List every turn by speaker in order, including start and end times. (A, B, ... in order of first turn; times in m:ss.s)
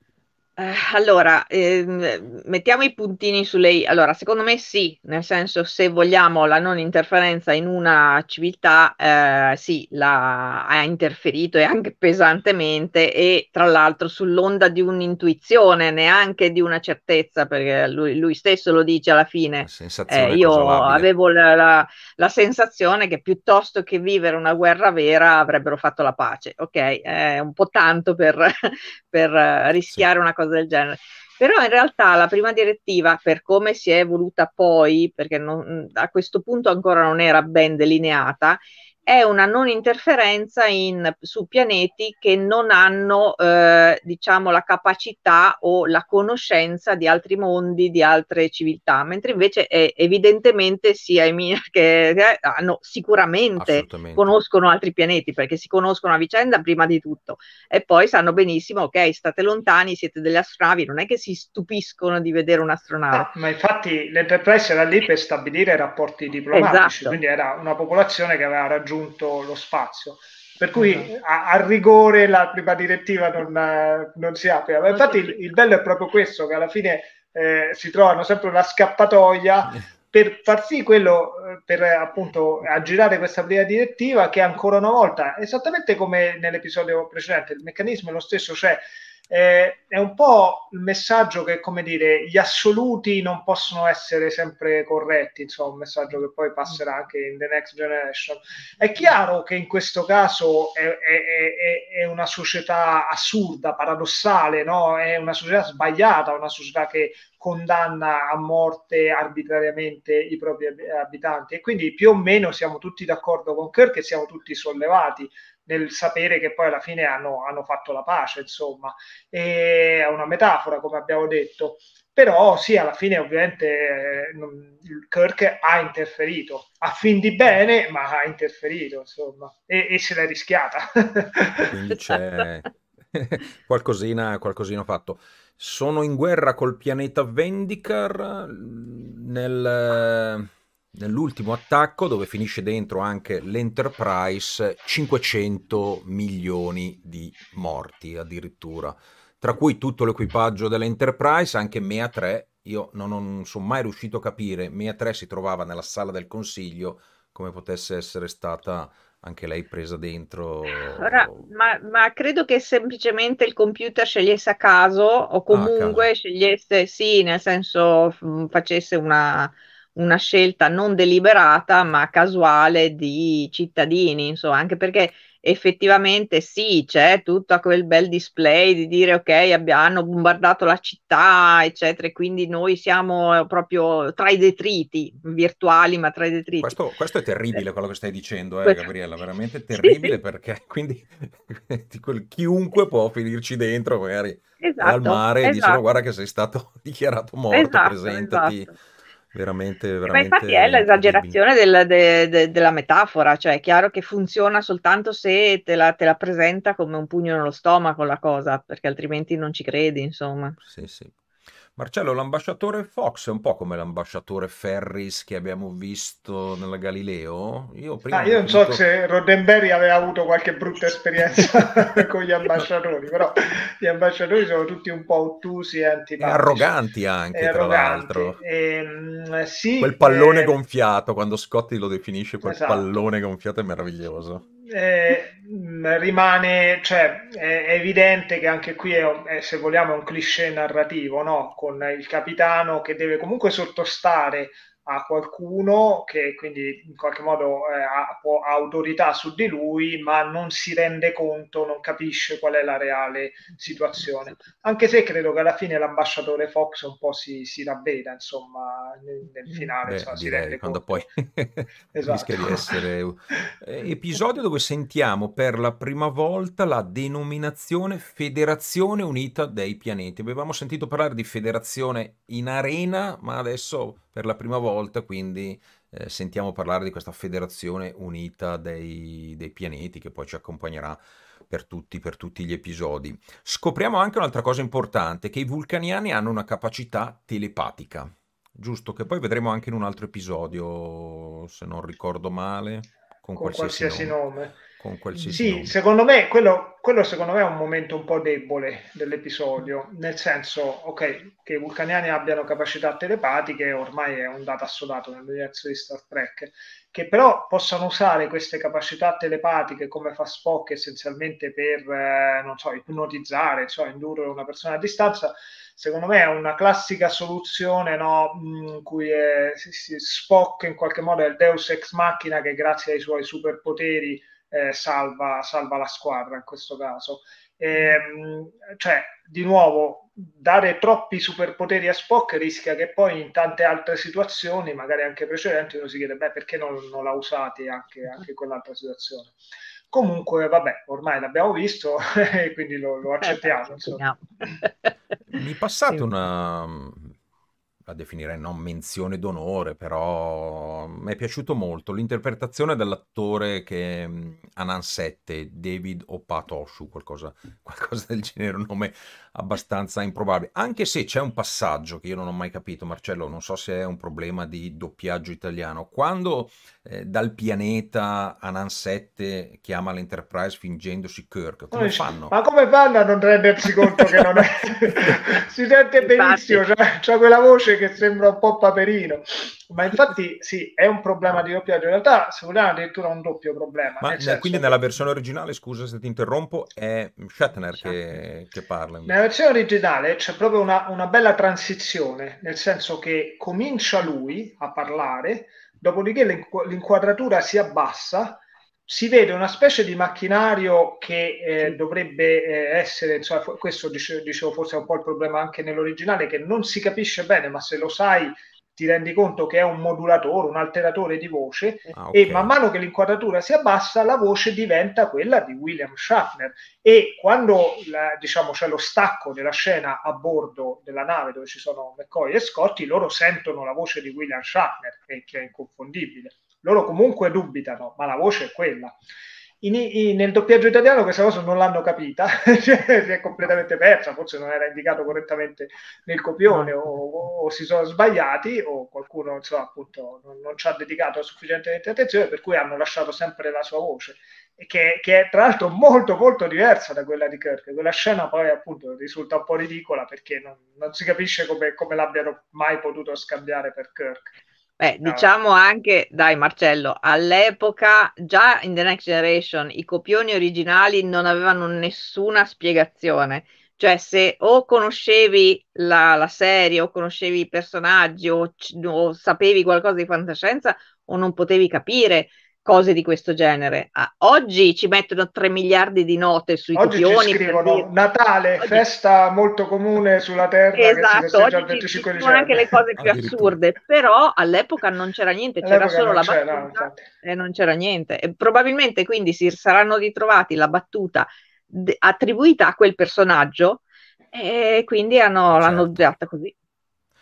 0:00.6-1:03.3 A
0:19.6-0:21.1 B
0:53.6-0:54.4 B
1:03.1-2:11.7 C
1:06.5-1:07.2 A
1:10.8-1:11.1 A
2:11.7-2:41.4 B
2:40.9-3:06.8 A
2:45.5-2:46.1 B
3:06.6-3:18.7 B
3:09.8-3:10.2 A
3:14.6-3:15.8 A
3:17.5-3:18.7 A
3:19.3-3:21.4 B
3:20.1-3:30.6 A
3:30.6-3:31.1 B
3:31.8-3:38.8 B
3:38.1-3:46.7 C
3:46.2-3:48.4 B
3:47.3-3:50.5 C
3:49.8-3:54.4 B
3:52.4-3:52.9 C
3:54.6-4:21.0 C
4:19.8-4:55.7 B
4:21.9-4:22.8 C
4:53.4-4:54.6 C
4:55.2-5:39.4 C
5:39.9-5:44.1 C
5:43.2-5:44.9 A
5:45.3-5:47.1 B
5:47.8-6:12.3 B
6:11.7-6:24.8 C
6:16.0-6:16.6 A
6:24.0-6:29.2 B
6:29.0-7:08.9 C
6:51.9-6:52.5 B
7:09.6-7:34.3 C
7:34.8-7:57.9 A
7:56.7-8:02.8 C
8:00.7-8:16.5 A
8:03.0-8:03.6 B
8:05.6-8:07.0 C
8:15.5-8:16.1 B